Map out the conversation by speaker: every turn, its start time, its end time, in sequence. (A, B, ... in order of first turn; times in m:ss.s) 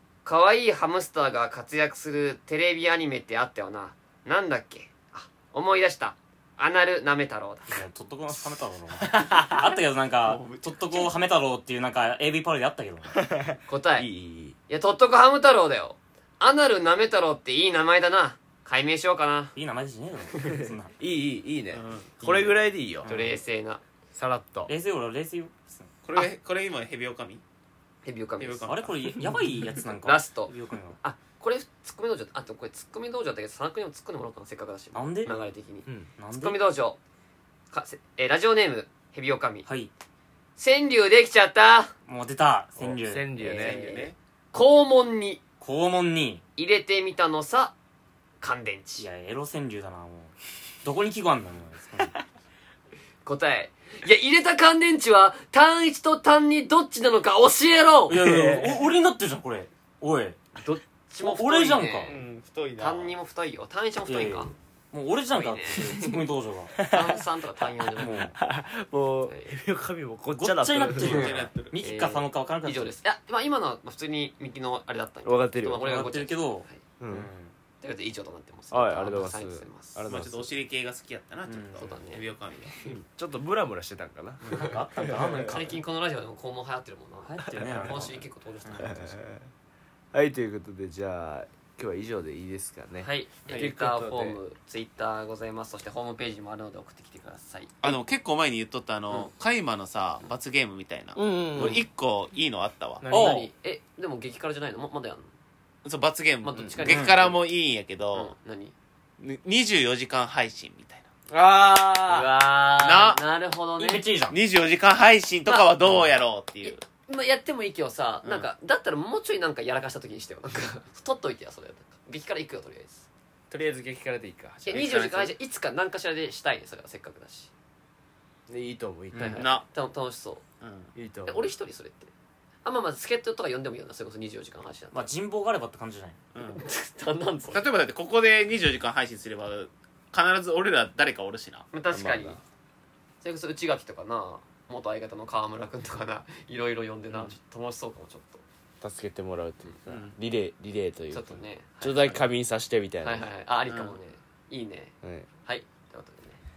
0:00.2-0:07.8 A
0:07.7-0:13.2 B
0:09.0-0:09.6 C
0:10.2-0:11.1 D
0:13.1-0:14.6 C
0:13.7-0:14.1 A
0:14.7-0:19.5 A
0:19.5-0:20.9 B
0:20.4-0:23.1 C
0:21.7-0:22.1 D
0:22.2-0:22.5 A
0:23.0-0:23.4 B
0:23.0-0:23.8 A
0:24.1-0:24.7 C
0:24.7-0:25.9 B
0:26.0-0:27.4 D
0:28.0-0:28.7 A
0:28.4-0:29.1 D
0:28.6-0:31.0 B
0:29.9-0:37.0 A
0:34.9-0:35.3 B
0:36.2-0:36.6 B
0:37.7-0:39.6 A
0:40.6-0:41.9 A
0:42.1-0:43.3 B
0:42.8-0:44.0 C
0:43.4-0:45.4 A
0:43.4-0:44.1 D
0:45.6-0:46.4 B
0:46.6-0:47.7 A
0:48.4-0:49.0 A
0:49.0-0:52.2 B
0:53.2-0:58.2 A
0:58.1-1:00.4 B
0:58.2-0:58.8 C
1:00.5-1:02.2 A
1:01.2-1:02.2 B
1:02.1-1:03.2 D
1:02.8-1:04.5 A
1:04.0-1:06.8 B
1:05.3-1:06.2 A
1:06.8-1:07.2 C
1:06.8-1:08.3 A
1:07.8-1:11.3 C
1:08.0-1:08.3 B
1:09.2-1:09.5 A
1:10.3-1:12.9 B
1:10.8-1:11.8 D
1:11.0-1:16.8 A
1:15.2-1:16.1 C
1:15.8-1:17.5 B
1:17.0-1:17.3 C
1:17.8-1:20.0 A
1:18.7-1:20.5 C
1:20.1-1:22.8 D
1:21.4-1:21.9 B
1:21.8-1:23.0 A
1:22.8-1:25.7 C
1:24.4-1:25.8 B
1:24.5-1:29.2 A
1:27.2-1:28.9 B
1:27.6-1:28.1 C
1:28.7-1:29.5 C
1:30.1-1:34.4 C
1:33.0-1:37.7 A
1:33.4-1:33.7 D
1:37.8-1:43.0 D
1:41.2-1:41.8 C
1:43.0-1:43.3 C
1:43.0-1:45.3 A
1:43.1-1:43.5 B
1:45.8-1:48.3 D
1:46.4-1:47.4 A
1:46.6-1:46.8 C
1:46.8-1:47.2 B
1:48.1-1:48.7 A
1:49.2-1:51.1 D
1:51.3-1:52.3 C
1:52.1-1:54.1 A
1:52.8-1:53.2 D
1:53.8-1:54.4 B
1:54.3-1:56.8 D
1:55.5-1:56.0 A
1:56.6-2:03.1 A
1:58.2-1:58.5 D
2:03.5-2:05.0 C
2:04.7-2:05.3 D
2:04.7-2:07.5 A
2:08.5-2:09.5 C
2:09.1-2:09.4 B
2:09.2-2:10.4 A
2:09.4-2:09.6 D
2:10.6-2:10.9 D
2:10.9-2:11.5 C
2:11.2-2:12.1 A
2:12.6-2:15.1 A
2:14.9-2:16.2 B
2:16.3-2:16.6 D
2:16.5-2:17.6 A
2:17.5-2:21.7 D
2:21.7-2:22.4 A
2:21.9-2:22.4 C
2:23.2-2:28.4 A
2:28.8-2:33.3 C
2:29.9-2:30.1 D
2:31.1-2:32.2 A
2:33.0-2:36.4 A
2:33.7-2:34.0 D